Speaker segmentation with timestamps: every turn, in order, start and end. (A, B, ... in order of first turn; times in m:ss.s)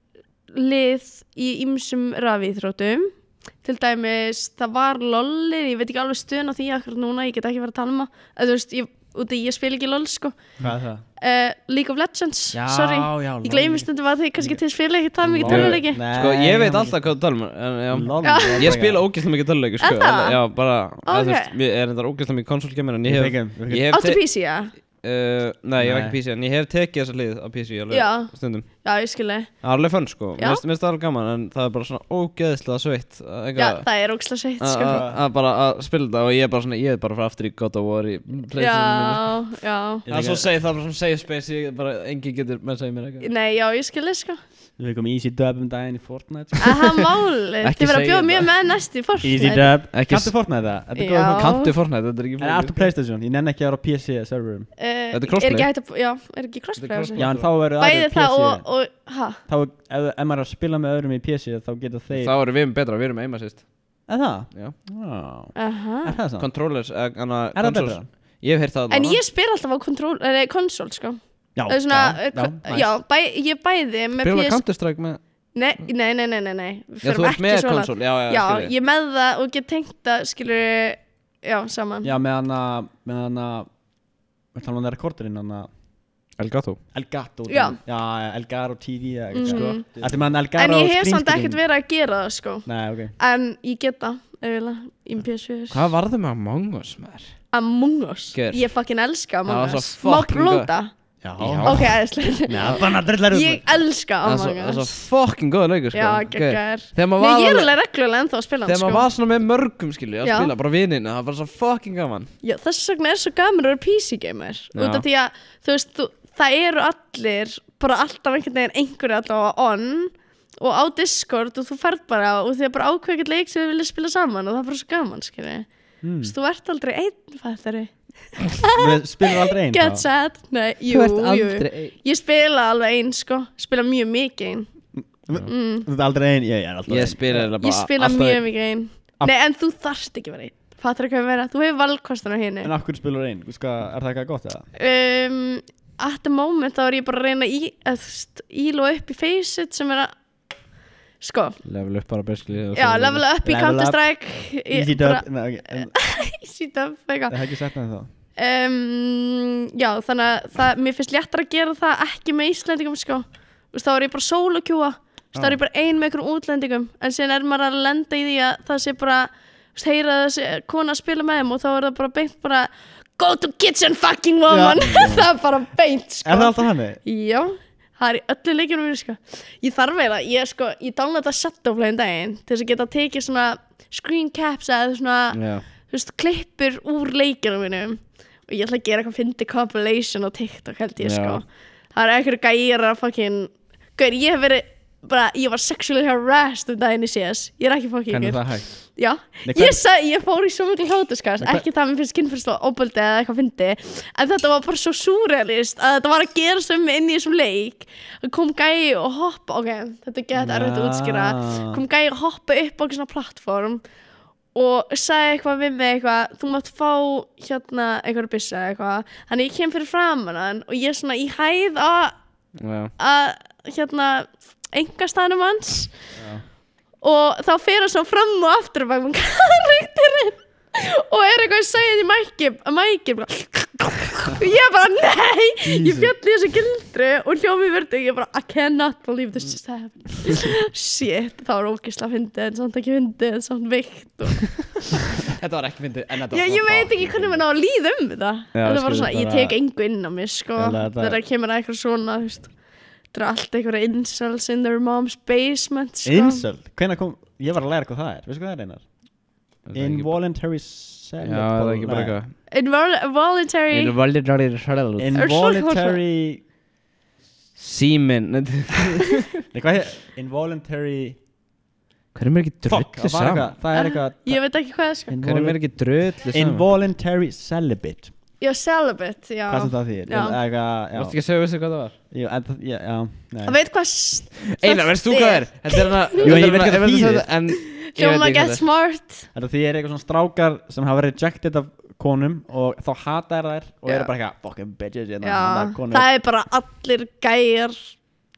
0:00.5-0:10.4 A
0:10.6-0:11.0 B
0:11.2-0:16.0 A
0:12.5-0:14.6 B
0:15.3-0:17.0 B
0:15.3-0:28.7 C
0:17.9-0:19.0 B
0:18.2-0:18.8 A
0:19.8-0:20.4 A
0:21.0-0:21.5 A
0:23.0-0:24.0 B
0:23.9-0:24.7 A
0:25.8-0:26.2 B
0:27.9-0:29.6 A
0:29.6-0:34.0 C
0:30.4-0:30.6 A
0:33.6-0:35.0 A
0:34.6-0:39.4 C
0:34.9-0:35.2 B
0:38.6-0:40.1 A
0:40.1-0:40.5 B
0:40.1-0:43.3 C
0:43.2-0:44.4 A
0:44.8-0:47.0 B
0:46.6-0:49.8 A
0:47.6-0:48.6 C
0:49.2-0:51.8 B
0:49.9-0:50.3 C
0:51.0-0:51.7 A
0:51.4-0:52.9 C
0:52.4-0:54.7 B
0:54.8-0:59.4 A
0:55.1-0:55.7 C
0:56.8-0:57.5 C
0:57.2-0:58.6 B
0:59.5-1:02.4 B
1:02.1-1:03.7 C
1:04.1-1:06.5 B
1:05.6-1:06.2 A
1:06.4-1:09.2 C
1:07.6-1:08.1 B
1:08.9-1:14.6 A
1:11.6-1:13.0 B
1:14.2-1:15.2 C
1:15.5-1:22.1 A
1:17.0-1:18.7 C
1:22.0-1:23.7 B
1:24.5-1:25.7 B
1:26.4-1:26.8 C
1:26.9-1:31.6 B
1:27.5-1:27.8 A
1:29.3-1:29.9 A
1:29.4-1:30.2 C
1:30.6-1:35.9 A
1:32.7-1:33.1 B
1:35.7-1:37.4 C
1:37.5-1:40.9 A
1:38.3-1:38.7 C
1:39.5-1:40.7 C
1:41.2-1:43.8 B
1:41.4-1:42.0 C
1:41.6-1:44.9 A
1:44.2-1:47.7 C
1:45.9-1:49.1 A
1:48.7-1:52.3 C
1:50.2-1:50.5 A
1:52.4-2:05.7 A
1:54.7-1:55.0 C
2:06.0-2:06.3 B
2:06.2-2:14.7 A
2:08.8-2:10.1 B
2:10.9-2:12.0 C
2:15.0-2:17.5 B
2:15.4-2:15.9 A
2:16.9-2:18.5 C
2:17.6-2:22.7 A
2:22.6-2:24.7 B
2:24.8-2:30.1 A
2:31.2-2:31.6 A
2:31.6-2:33.2 C
2:32.8-2:37.4 A
2:33.4-2:36.0 B
2:37.3-2:38.1 B
2:38.4-3:33.8 A
2:45.3-2:45.6 B
2:54.5-2:55.3 B
2:56.2-2:57.0 B
3:05.3-3:05.6 C
3:11.0-3:11.4 C
3:18.1-3:19.8 B
3:30.4-3:31.8 B
3:34.5-3:42.2 A
3:42.6-3:42.9 C
3:43.0-3:45.9 A
3:46.2-3:46.4 B
3:47.0-4:04.6 A
3:55.6-3:56.1 B
4:05.2-4:07.4 C
4:06.3-4:12.5 A
4:08.5-4:09.6 B
4:10.6-4:11.2 B
4:13.1-4:16.4 A
4:16.0-4:18.9 B
4:19.7-4:20.1 C
4:19.7-4:22.2 B
4:21.2-4:22.4 C
4:22.5-4:24.0 A
4:23.7-4:25.2 C
4:25.0-4:26.4 B
4:25.2-4:26.0 A
4:27.6-4:29.3 C
4:29.5-4:31.2 B
4:32.1-4:33.5 C
4:32.6-4:34.4 B
4:33.7-4:35.2 A
4:35.1-4:35.6 B
4:35.2-4:36.6 C
4:36.2-4:38.1 B
4:38.4-4:40.4 A
4:39.5-4:41.2 B
4:41.0-4:42.0 C
4:42.1-4:43.6 B
4:43.5-4:46.4 A
4:44.5-4:48.6 C
4:46.2-4:47.3 B
4:47.6-4:49.3 A
4:49.3-4:56.1 B
4:55.2-4:58.0 A